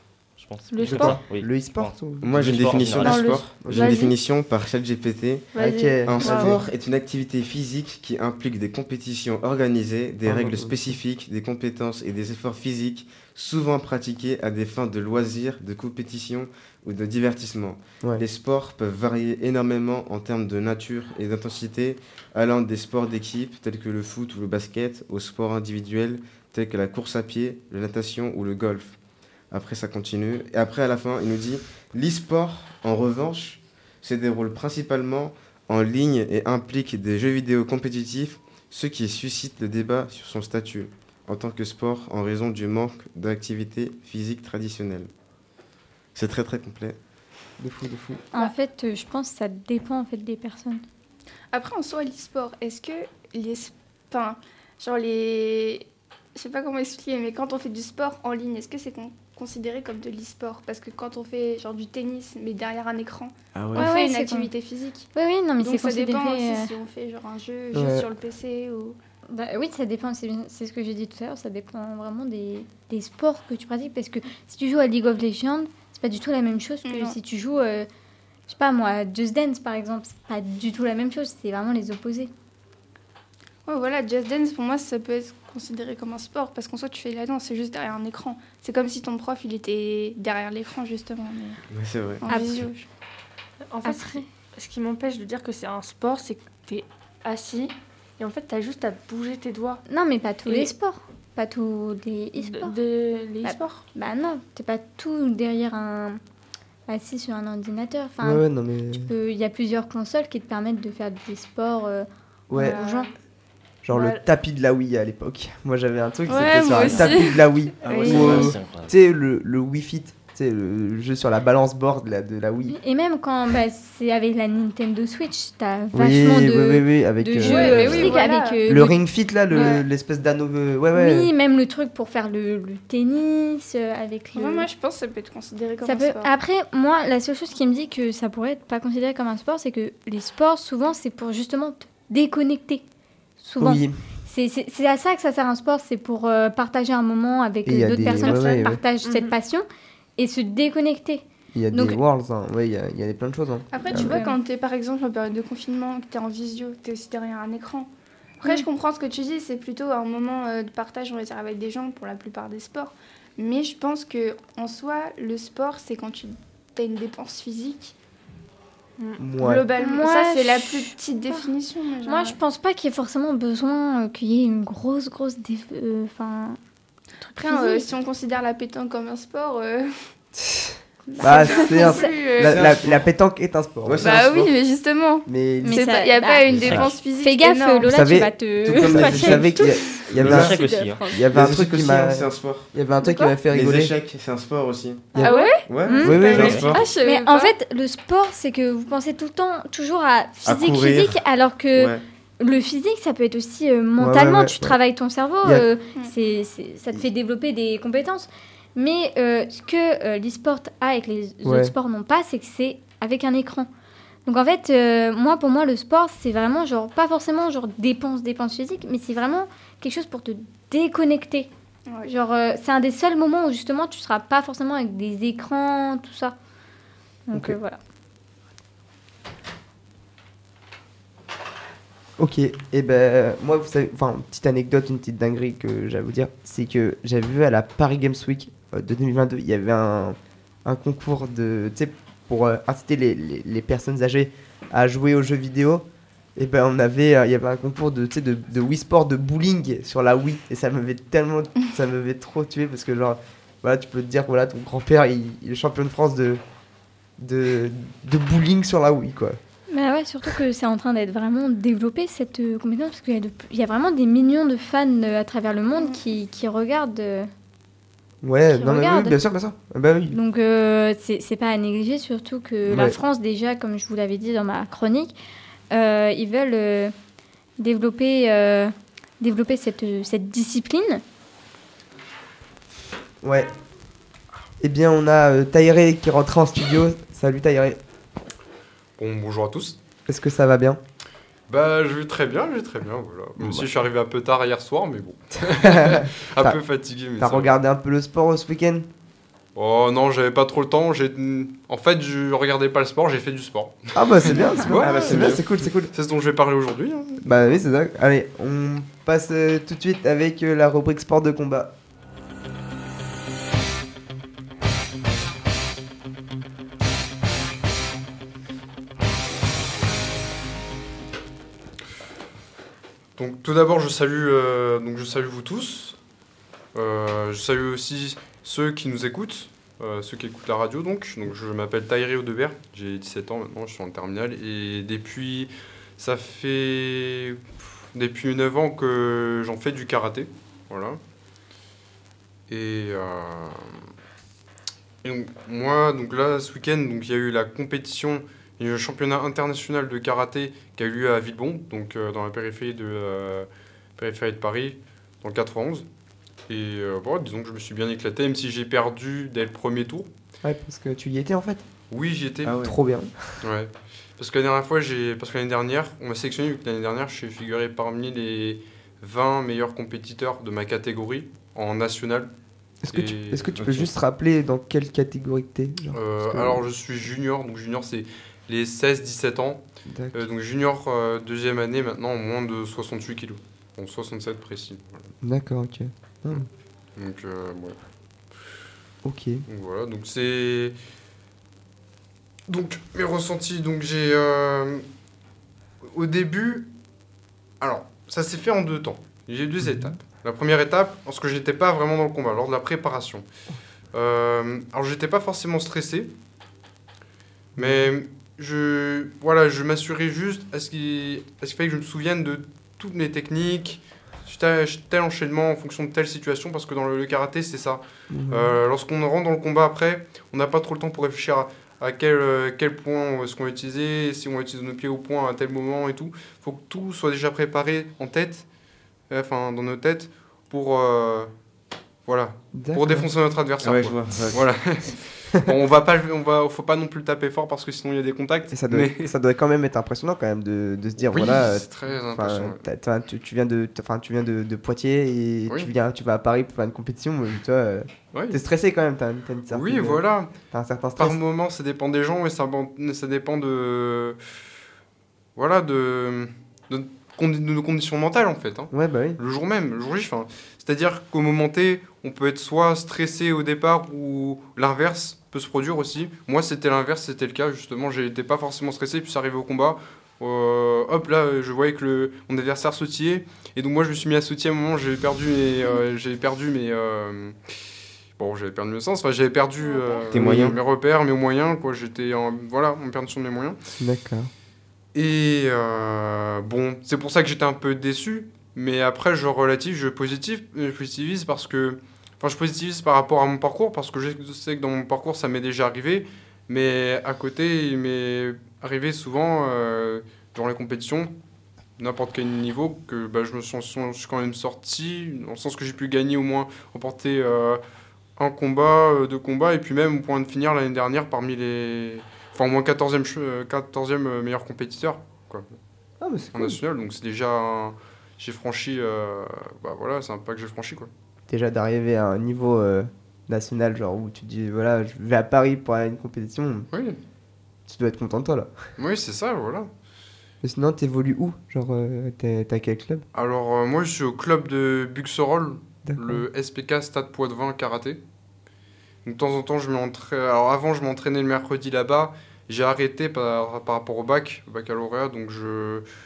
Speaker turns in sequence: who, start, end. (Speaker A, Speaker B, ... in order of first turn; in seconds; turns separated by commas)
Speaker A: 0.4-3.3, Speaker B: 0.7-1.2, Speaker C: 0.9-2.6, Speaker D: 2.2-29.0, Speaker B: 3.0-4.2, Speaker C: 3.6-4.0, Speaker B: 5.5-6.6, Speaker C: 5.5-6.6, Speaker C: 10.2-10.9, Speaker D: 29.5-45.1, Speaker D: 46.1-47.0, Speaker C: 47.6-48.2, Speaker E: 48.3-50.8, Speaker F: 51.5-69.0, Speaker D: 63.5-63.9, Speaker E: 63.7-64.5, Speaker E: 65.1-66.7, Speaker C: 67.7-68.1, Speaker E: 69.3-77.9, Speaker F: 76.8-77.2, Speaker E: 78.5-82.3, Speaker F: 83.7-91.6, Speaker D: 91.7-92.3, Speaker F: 92.2-92.8, Speaker E: 92.3-92.6, Speaker B: 93.7-99.8, Speaker E: 93.8-94.2, Speaker E: 99.9-102.7, Speaker B: 100.5-100.7, Speaker B: 102.4-103.8, Speaker E: 103.4-106.2, Speaker E: 106.9-113.1, Speaker C: 108.2-109.1, Speaker C: 112.5-112.8, Speaker B: 112.5-113.1, Speaker C: 113.8-122.8, Speaker B: 113.9-114.2, Speaker F: 116.3-118.3, Speaker A: 116.7-117.2, Speaker D: 117.8-118.5, Speaker A: 117.9-118.9, Speaker E: 122.7-129.8, Speaker C: 125.9-131.3, Speaker F: 127.4-128.8, Speaker E: 130.9-134.7, Speaker F: 134.3-136.3, Speaker E: 135.8-142.8, Speaker E: 143.4-149.6, Speaker C: 143.6-144.0, Speaker C: 147.6-148.8, Speaker B: 149.0-149.3, Speaker E: 150.2-152.0, Speaker C: 151.5-154.2, Speaker F: 153.7-167.9, Speaker E: 153.9-154.4, Speaker C: 169.2-169.7, Speaker F: 169.4-172.4, Speaker E: 169.8-171.5, Speaker E: 172.0-176.6, Speaker E: 177.2-177.9, Speaker F: 177.3-180.1, Speaker C: 180.4-184.3, Speaker E: 181.1-182.3, Speaker F: 181.2-182.7, Speaker D: 182.4-183.1, Speaker D: 183.8-184.5, Speaker F: 184.0-187.9, Speaker C: 185.3-186.0, Speaker E: 185.6-191.2, Speaker A: 186.5-186.9, Speaker C: 187.9-190.5, Speaker F: 188.8-189.7, Speaker D: 188.9-189.3, Speaker D: 190.1-190.5, Speaker A: 190.2-191.0, Speaker C: 191.1-193.9, Speaker D: 191.3-192.7, Speaker E: 193.0-193.3, Speaker D: 193.5-195.1, Speaker E: 195.1-213.7, Speaker C: 195.1-195.4, Speaker F: 195.2-197.5, Speaker D: 195.7-196.8, Speaker C: 196.0-196.6, Speaker A: 196.3-196.7, Speaker D: 200.4-201.2, Speaker D: 201.7-202.0, Speaker C: 204.0-204.8, Speaker C: 211.4-211.7, Speaker E: 214.2-221.5, Speaker E: 222.0-226.3, Speaker E: 227.3-227.8, Speaker C: 232.2-245.8, Speaker C: 246.3-256.4, Speaker C: 257.2-259.4, Speaker E: 259.7-267.3, Speaker C: 268.2-270.2, Speaker E: 268.6-269.2, Speaker E: 270.1-275.1, Speaker C: 272.7-273.0, Speaker E: 275.7-276.9, Speaker E: 277.6-281.0, Speaker C: 283.2-283.5, Speaker C: 284.6-287.8, Speaker G: 289.0-289.8, Speaker C: 290.1-290.8, Speaker G: 291.5-297.6, Speaker C: 293.4-293.7, Speaker C: 295.6-296.6, Speaker C: 297.2-298.9, Speaker G: 299.5-307.3, Speaker C: 303.9-305.9, Speaker D: 304.6-305.4, Speaker C: 307.2-311.7, Speaker G: 323.1-326.0, Speaker G: 326.7-341.0, Speaker G: 342.5-343.8, Speaker G: 345.0-355.9, Speaker G: 356.5-360.1, Speaker C: 360.4-361.6, Speaker G: 361.9-362.6, Speaker D: 362.4-362.8, Speaker C: 362.6-363.4, Speaker G: 363.4-372.3, Speaker C: 372.8-376.6, Speaker G: 372.9-373.5, Speaker D: 373.6-373.9, Speaker G: 375.9-379.6, Speaker C: 379.9-380.2, Speaker G: 380.1-385.1, Speaker C: 385.2-386.5, Speaker G: 386.9-387.8, Speaker C: 389.0-389.4, Speaker G: 389.5-390.7, Speaker G: 392.5-394.8, Speaker G: 395.8-396.7, Speaker G: 397.6-403.3, Speaker C: 399.6-399.9, Speaker G: 403.9-406.1, Speaker C: 407.6-407.9, Speaker G: 407.6-428.4, Speaker C: 418.1-418.6, Speaker G: 429.1-431.3, Speaker G: 432.1-439.1, Speaker C: 432.5-433.1, Speaker D: 433.6-434.4, Speaker C: 438.5-451.2, Speaker G: 441.1-442.6, Speaker G: 448.1-448.4, Speaker G: 449.5-450.3, Speaker G: 451.0-454.2, Speaker G: 455.4-477.4, Speaker C: 458.7-459.2, Speaker G: 478.2-483.6, Speaker F: 479.6-480.1, Speaker D: 480.1-480.6, Speaker C: 483.8-484.3, Speaker G: 484.9-501.1, Speaker G: 501.8-507.6, Speaker G: 508.2-515.6, Speaker C: 516.0-516.6, Speaker G: 516.3-520.9, Speaker C: 521.3-526.7, Speaker G: 526.7-527.0, Speaker C: 527.7-528.6, Speaker G: 528.8-529.7, Speaker C: 530.4-533.0, Speaker G: 533.1-538.0, Speaker C: 535.8-536.2, Speaker G: 539.0-545.8